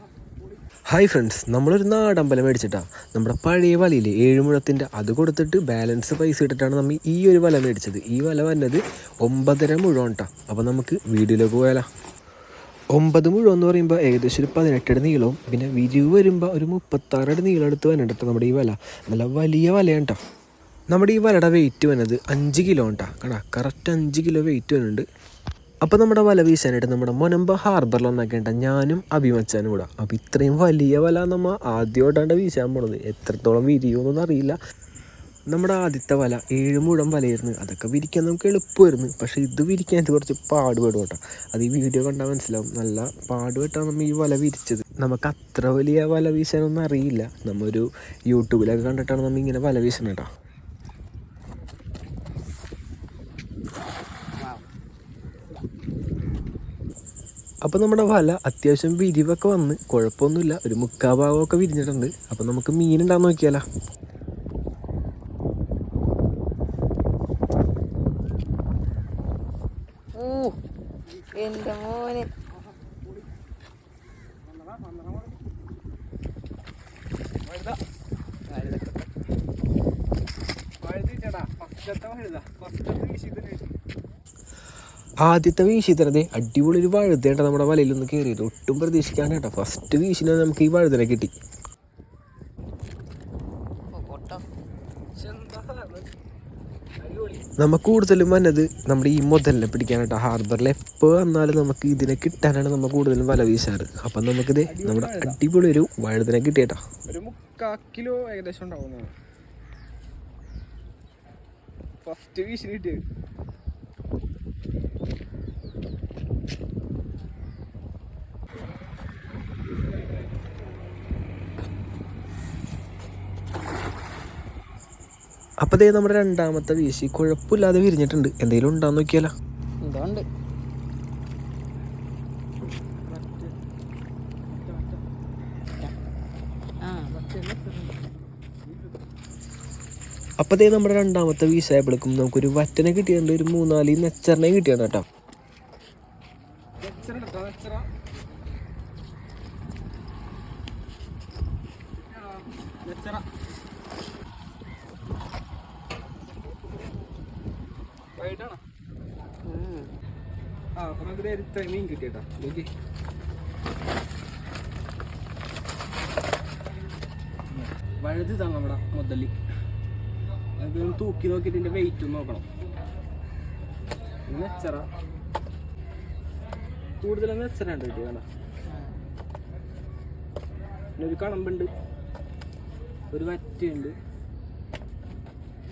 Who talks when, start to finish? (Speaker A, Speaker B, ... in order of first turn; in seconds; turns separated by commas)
Speaker A: 0.9-11.9, Speaker A: 12.9-20.2, Speaker A: 20.9-25.0, Speaker A: 25.8-34.6, Speaker A: 35.5-50.3, Speaker A: 57.7-63.6, Speaker B: 70.2-70.6, Speaker B: 71.3-72.3, Speaker C: 77.5-77.8, Speaker C: 80.8-83.7, Speaker A: 85.2-91.3, Speaker B: 93.9-94.4, Speaker C: 95.2-96.1, Speaker C: 97.0-97.5, Speaker A: 97.6-106.8, Speaker C: 104.7-105.4, Speaker C: 107.1-109.1, Speaker C: 112.0-113.0, Speaker A: 125.6-129.3, Speaker B: 129.8-130.2, Speaker C: 133.1-133.5, Speaker B: 136.8-137.1, Speaker C: 137.2-137.9, Speaker A: 140.4-145.1, Speaker C: 146.8-147.9, Speaker C: 152.8-153.2, Speaker C: 158.2-158.6, Speaker B: 159.5-159.9, Speaker C: 160.8-162.7, Speaker C: 167.5-169.4, Speaker C: 170.6-172.5, Speaker C: 174.3-174.9, Speaker C: 177.0-178.3, Speaker C: 181.0-181.7, Speaker C: 183.1-183.9